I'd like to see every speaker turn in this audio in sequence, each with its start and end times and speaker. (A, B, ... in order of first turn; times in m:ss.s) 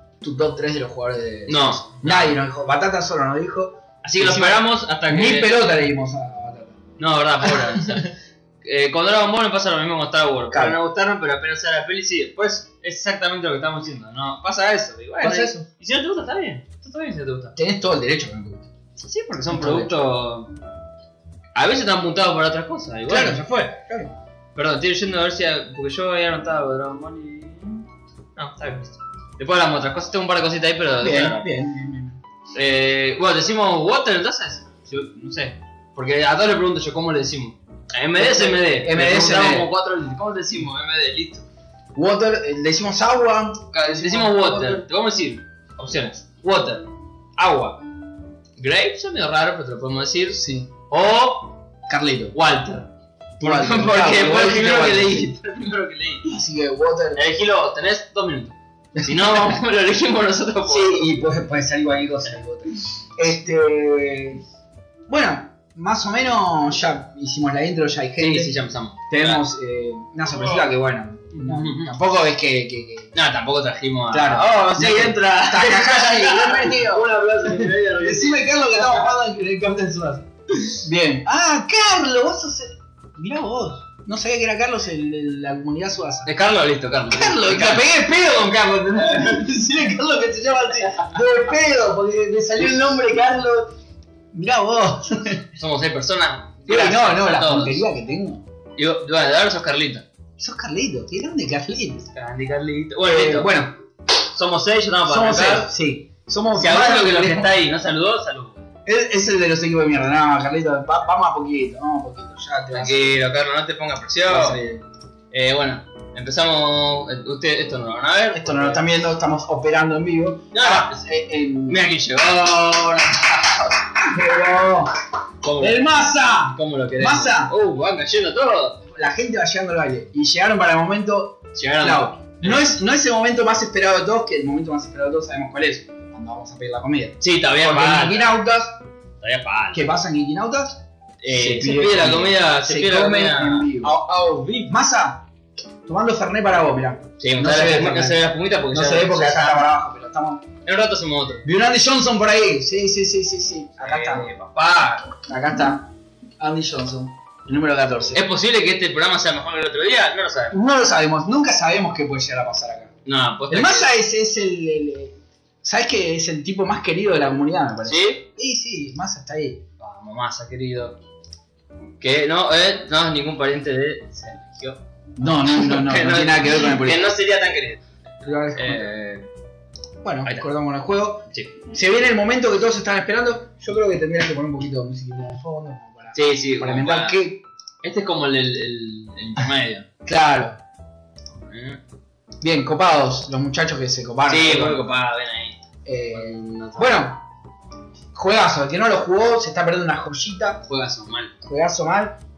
0:00.2-0:06.8 A
0:01.5-0:02.4 B
0:04.0-0:05.6 B
0:07.0-0:17.6 B
0:07.4-0:08.0 A
0:10.5-0:10.8 A
0:15.2-0:15.6 A
0:17.6-0:18.7 A
0:19.0-0:20.5 B
0:19.5-0:19.9 A
0:21.5-0:23.7 B
0:23.1-0:24.1 A
0:24.5-0:27.8 B
0:28.4-0:31.5 B
0:31.0-0:32.2 A
0:32.5-0:41.4 B
0:38.2-0:39.7 A
0:41.9-0:44.8 A
0:43.7-0:47.8 B
0:48.6-0:51.6 B
0:50.4-0:50.7 A
0:51.9-0:52.3 A
0:52.3-0:52.9 B
0:53.4-0:55.3 A
0:53.4-0:56.4 B
0:56.3-0:57.2 A
0:57.1-1:01.1 B
0:58.9-0:59.6 A
1:00.6-1:04.4 A
1:05.1-1:08.6 A
1:08.2-1:09.4 B
1:09.1-1:13.1 A
1:10.3-1:10.7 B
1:11.3-1:12.0 B
1:13.1-1:19.0 B
1:14.1-1:26.3 A
1:26.2-1:28.0 B
1:27.1-1:33.7 A
1:29.0-1:29.3 B
1:34.3-1:35.4 A
1:35.6-1:37.8 B
1:36.7-1:38.4 A
1:38.8-1:40.0 B
1:40.4-1:42.0 A
1:42.0-1:43.6 B
1:43.0-1:43.7 A
1:44.2-1:45.7 B
1:45.0-1:47.5 A
1:46.5-1:48.7 B
1:48.8-1:53.1 A
1:52.7-1:54.6 B
1:54.3-1:54.8 A
1:55.3-1:58.9 B
1:58.3-2:01.9 A
2:00.5-2:01.1 B
2:01.7-2:03.9 B
2:04.0-2:04.9 A
2:05.4-2:08.8 B
2:05.6-2:07.5 A
2:08.9-2:18.8 A
2:11.5-2:12.7 B
2:17.2-2:18.4 B
2:19.2-2:19.9 B
2:19.7-2:24.0 A
2:21.2-2:24.7 B
2:24.6-2:25.2 A
2:25.8-2:30.4 A
2:27.2-2:29.6 B
2:30.6-2:31.4 B
2:31.4-2:34.3 A
2:33.8-2:35.1 B
2:35.1-2:38.2 A
2:38.1-2:40.6 B
2:40.5-2:42.9 A
2:43.0-2:43.9 B
2:43.5-2:49.6 A
2:47.8-2:48.2 B
2:49.8-2:51.0 B
2:52.0-2:54.8 B
2:55.2-2:57.1 A
2:55.3-2:57.8 B
2:58.2-2:58.9 A
2:58.6-2:59.3 B
3:00.0-3:07.4 A
3:00.2-3:00.5 B
3:01.3-3:01.6 B
3:06.1-3:07.2 B
3:07.8-3:09.8 B
3:10.0-3:10.6 A
3:11.4-3:11.8 B
3:12.4-3:14.8 A
3:14.3-3:17.0 B
3:15.8-3:17.2 A
3:18.1-3:20.6 A
3:20.7-3:21.3 B
3:21.4-3:22.2 A